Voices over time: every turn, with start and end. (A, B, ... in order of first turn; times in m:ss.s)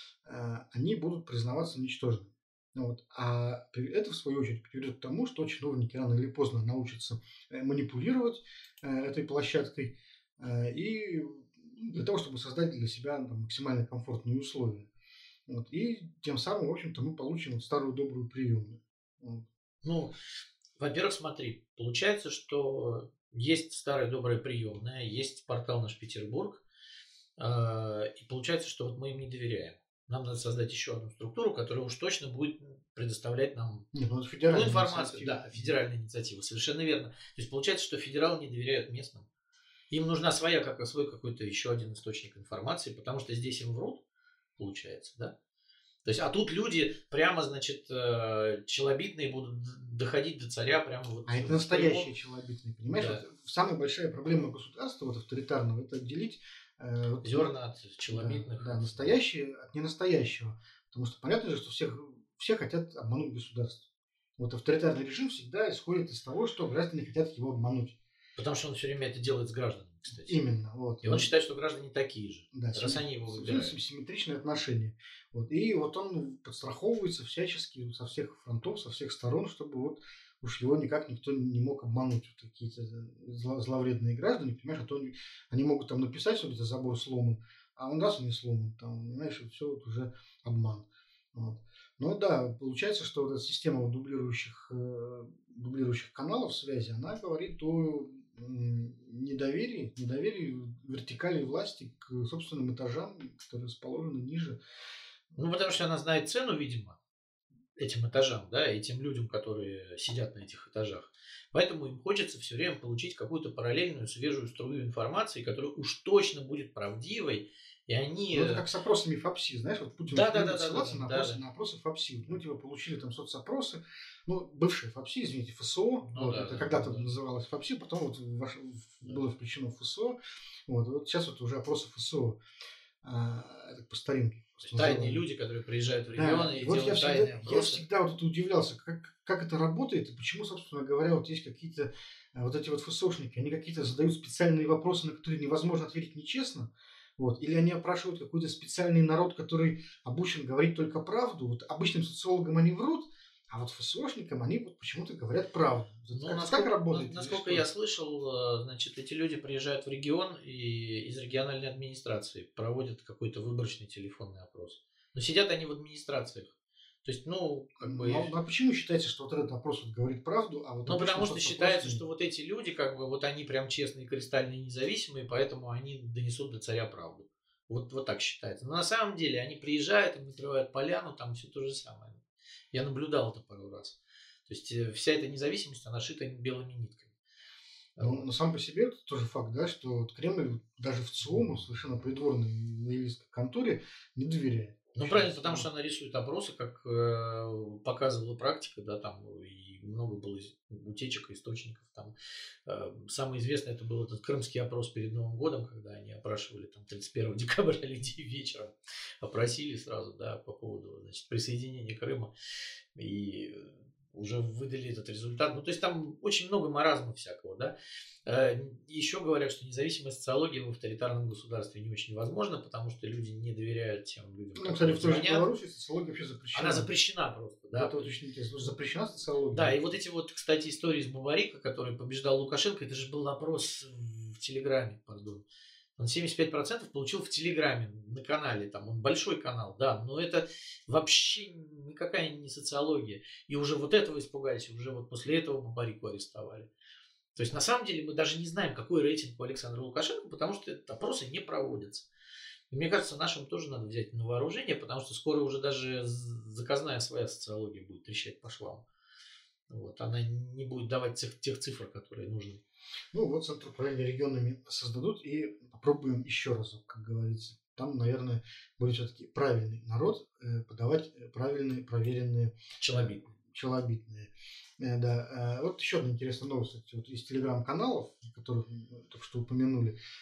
0:00.2-0:14.9 A
0:15.5-0:19.4 A
0:19.8-0:20.1 B
0:20.8-0:26.6 B
0:27.4-0:33.9 B
0:33.9-0:35.7 A
0:34.5-0:39.2 B
0:39.9-0:44.0 B
0:44.6-0:45.3 B
0:46.0-0:52.1 B
0:51.3-0:57.5 A
0:52.9-0:53.2 B
0:57.2-0:59.2 B
0:58.1-1:03.8 A
1:04.4-1:08.0 A
1:08.4-1:10.4 B
1:10.2-1:11.3 A
1:11.0-1:13.7 B
1:12.5-1:44.6 A
1:45.4-1:47.0 B
1:47.8-1:58.6 B
1:58.3-2:12.4 A
2:00.1-2:01.4 B
2:06.1-2:07.1 B
2:13.0-2:15.2 A
2:14.6-2:17.8 B
2:16.1-2:37.6 A
2:36.1-2:46.5 B
2:47.0-2:48.3 B
2:47.8-2:52.0 A
2:50.8-3:02.2 B
3:02.7-3:04.0 B
3:04.5-3:07.1 B
3:08.0-3:08.2 B
3:08.0-3:15.7 A
3:14.9-3:22.1 B
3:22.6-3:32.3 B
3:32.9-3:37.7 B
3:38.2-3:45.4 B
3:44.6-3:46.9 A
3:46.5-3:48.1 B
3:47.7-3:49.8 A
3:49.5-3:55.4 B
3:56.0-4:06.7 B
4:07.4-4:12.0 B
4:12.7-4:18.8 B
4:19.7-4:22.6 B
4:23.1-4:40.0 A
4:32.8-4:33.2 B